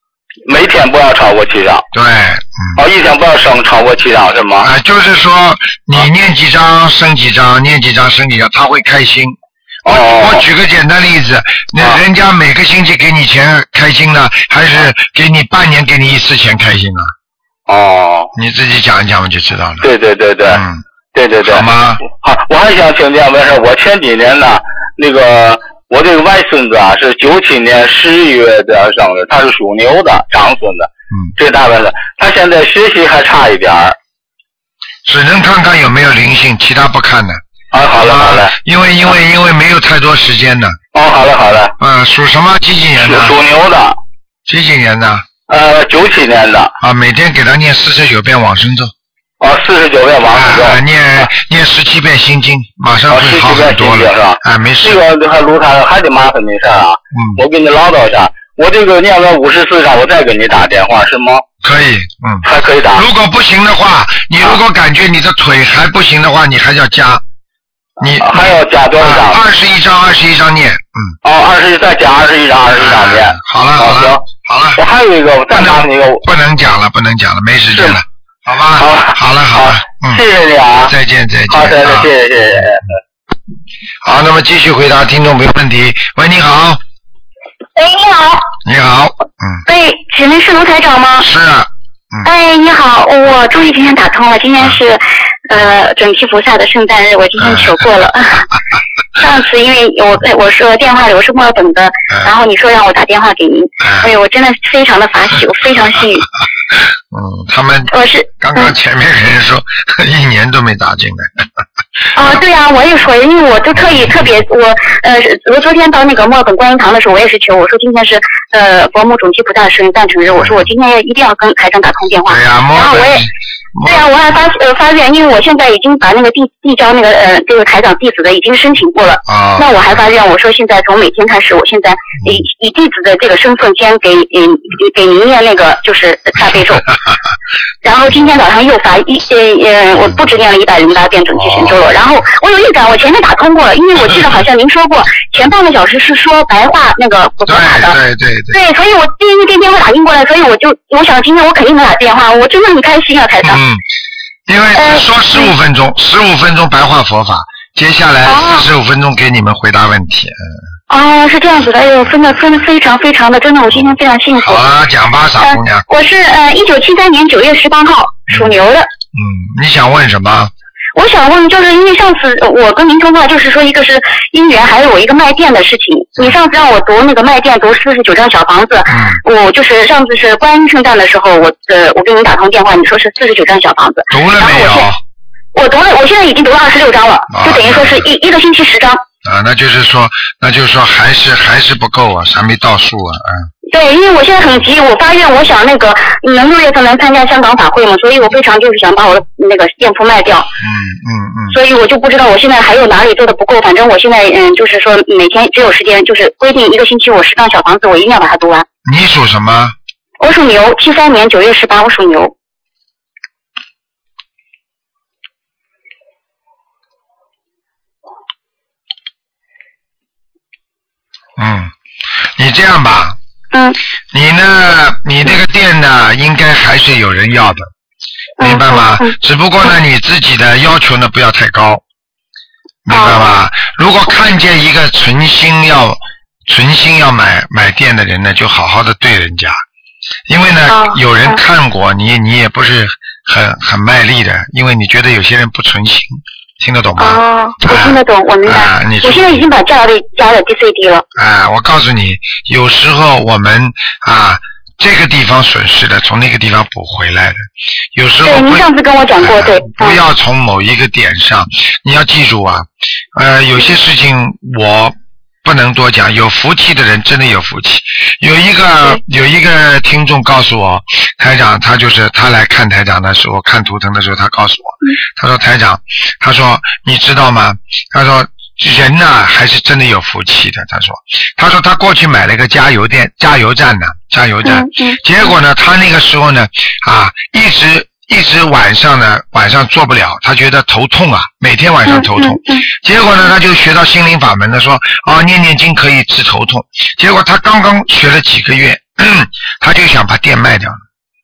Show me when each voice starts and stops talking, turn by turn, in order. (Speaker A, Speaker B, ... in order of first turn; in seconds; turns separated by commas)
Speaker A: 0.5-1.9, Speaker B: 1.9-2.8, Speaker A: 2.8-4.7, Speaker B: 4.6-17.1, Speaker A: 9.9-10.4, Speaker A: 17.7-18.3, Speaker B: 18.4-19.9, Speaker A: 19.8-20.6, Speaker B: 20.5-20.8, Speaker A: 21.1-34.0, Speaker B: 21.4-22.0, Speaker B: 35.1-37.4, Speaker A: 37.7-38.5, Speaker B: 38.0-40.8, Speaker A: 40.9-41.7, Speaker B: 41.8-43.4, Speaker A: 43.0-44.0, Speaker B: 44.5-45.3, Speaker A: 45.5-46.7, Speaker B: 46.8-48.9, Speaker A: 49.4-50.8, Speaker B: 50.3-55.0, Speaker A: 53.1-61.4, Speaker B: 57.1-57.4, Speaker B: 61.6-67.2, Speaker A: 62.4-63.0, Speaker B: 68.0-71.2, Speaker A: 68.1-69.4, Speaker A: 71.2-74.2, Speaker B: 72.8-74.8, Speaker A: 74.8-76.2, Speaker B: 75.5-80.2, Speaker A: 77.7-78.0, Speaker A: 78.8-80.9, Speaker B: 80.8-82.1, Speaker A: 81.5-82.9, Speaker B: 84.0-86.8, Speaker C: 87.8-88.5, Speaker B: 88.7-89.6, Speaker C: 89.7-91.3, Speaker B: 91.2-92.3, Speaker C: 92.2-98.5, Speaker B: 97.4-97.9, Speaker C: 99.2-106.3, Speaker B: 103.8-104.1, Speaker B: 107.1-111.5, Speaker C: 107.9-108.7, Speaker C: 112.2-123.3, Speaker B: 120.3-120.7, Speaker B: 122.3-124.1, Speaker C: 123.8-136.9, Speaker B: 129.3-129.9, Speaker C: 137.8-148.0, Speaker B: 141.4-141.9, Speaker B: 147.5-148.6, Speaker C: 148.5-153.6, Speaker B: 153.4-153.8, Speaker B: 154.5-160.4, Speaker C: 154.8-155.5, Speaker C: 158.2-158.7, Speaker C: 160.9-164.7, Speaker B: 163.7-165.8, Speaker C: 165.4-168.9, Speaker B: 168.3-168.6, Speaker B: 169.1-170.5, Speaker C: 170.9-184.9, Speaker B: 178.9-179.2, Speaker B: 184.1-185.0, Speaker C: 185.5-189.0, Speaker B: 187.3-188.1, Speaker B: 189.2-193.5, Speaker C: 193.7-200.5, Speaker B: 200.6-201.6, Speaker C: 201.5-208.7, Speaker B: 208.8-209.8, Speaker C: 210.2-212.3, Speaker B: 221.4-221.7, Speaker B: 222.4-223.2, Speaker C: 223.5-223.8, Speaker B: 224.1-227.7, Speaker C: 228.4-229.2, Speaker B: 228.4-231.8, Speaker B: 232.9-239.6, Speaker C: 232.9-233.4, Speaker B: 240.3-249.4, Speaker C: 240.7-241.4, Speaker C: 247.0-251.1, Speaker B: 251.2-257.4, Speaker B: 257.9-258.7, Speaker C: 258.2-260.0, Speaker B: 259.2-300.8, Speaker C: 284.4-285.0, Speaker C: 291.9-292.7